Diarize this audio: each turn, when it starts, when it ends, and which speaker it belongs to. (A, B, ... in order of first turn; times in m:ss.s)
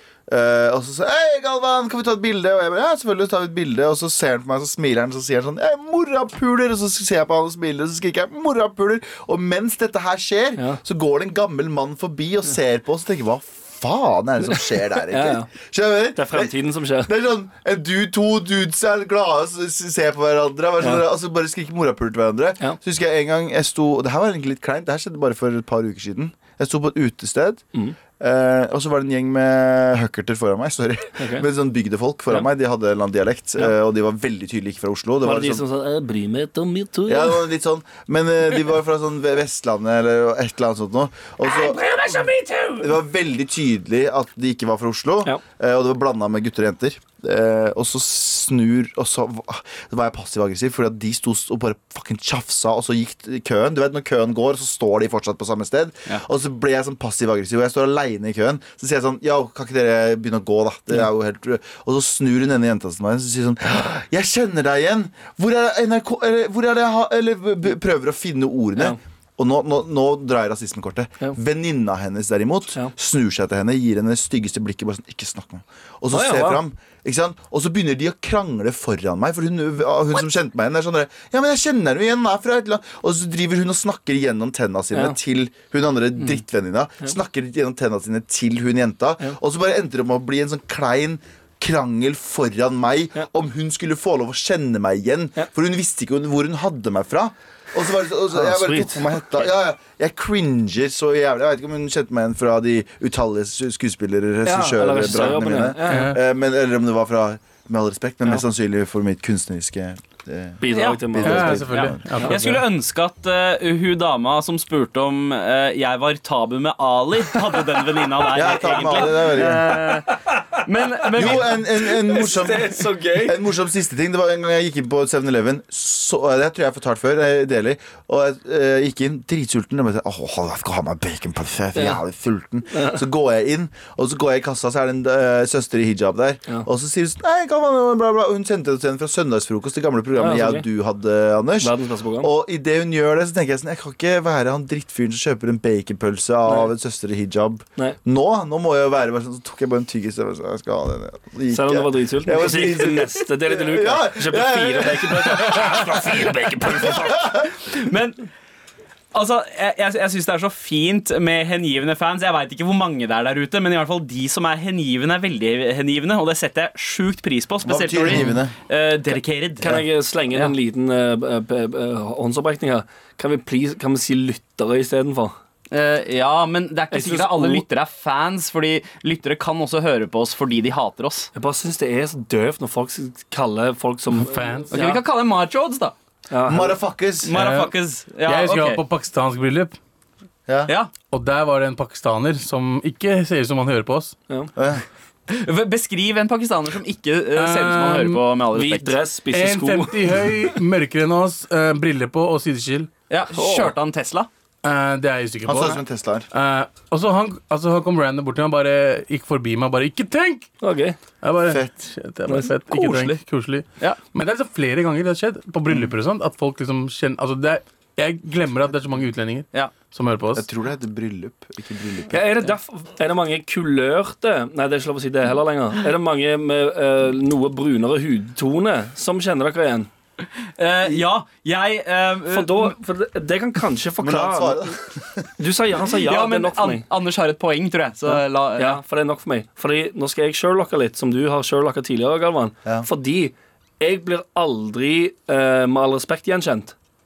0:00.3-0:27.6 A
0:14.5-0:15.5 B
0:16.2-0:17.1 B
0:20.8-0:21.0 B
0:28.2-0:35.6 A
0:31.2-0:31.5 B
0:35.2-0:37.4 B
0:37.1-0:42.2 A
0:41.6-0:42.8 C
0:42.8-1:52.1 A
1:16.1-1:16.6 B
1:24.9-1:25.2 B
1:38.3-1:39.1 B
1:44.4-1:46.1 B
1:45.8-1:46.2 D
1:50.6-1:51.6 B
1:50.7-1:51.0 C
1:51.2-1:52.6 D
1:51.7-2:00.1 C
1:52.2-1:52.6 B
1:58.3-1:59.7 A
1:59.2-2:03.4 B
2:00.7-2:01.6 C
2:01.2-2:37.5 A
2:11.8-2:12.0 B
2:12.7-2:13.0 B
2:20.2-2:20.7 B
2:21.6-2:22.3 B
2:31.5-2:37.2 B
2:37.2-2:38.2 C
2:39.1-2:50.5 C
2:47.6-2:48.5 A
2:49.6-2:55.3 B
2:55.7-3:01.3 C
2:56.9-2:57.6 B
3:01.3-3:05.0 B
3:04.1-3:04.7 D
3:04.7-3:05.9 C
3:06.3-3:06.8 B
3:06.5-3:07.3 A
3:07.2-3:08.8 C
3:07.3-3:09.8 D
3:10.5-3:10.7 A
3:10.7-3:11.0 C
3:11.1-3:14.2 D
3:14.6-3:14.8 A
3:15.3-3:19.0 C
3:17.4-3:18.2 D
3:18.5-3:20.4 B
3:19.3-3:22.9 D
3:23.1-3:24.3 C
3:23.3-3:23.7 B
3:24.6-3:25.8 D
3:25.5-3:26.3 A
3:26.3-3:30.5 D
3:30.6-3:31.0 B
3:31.2-3:40.5 D
3:31.5-3:31.8 A
3:32.3-3:32.5 B
3:32.7-3:33.2 C
3:39.5-3:39.8 C
3:40.4-3:42.3 A
3:42.1-3:49.9 B
3:50.6-3:52.7 C
3:52.3-3:54.7 B
3:54.0-3:55.3 A
3:55.4-3:56.8 B
3:56.0-3:58.8 C
3:58.1-4:06.7 B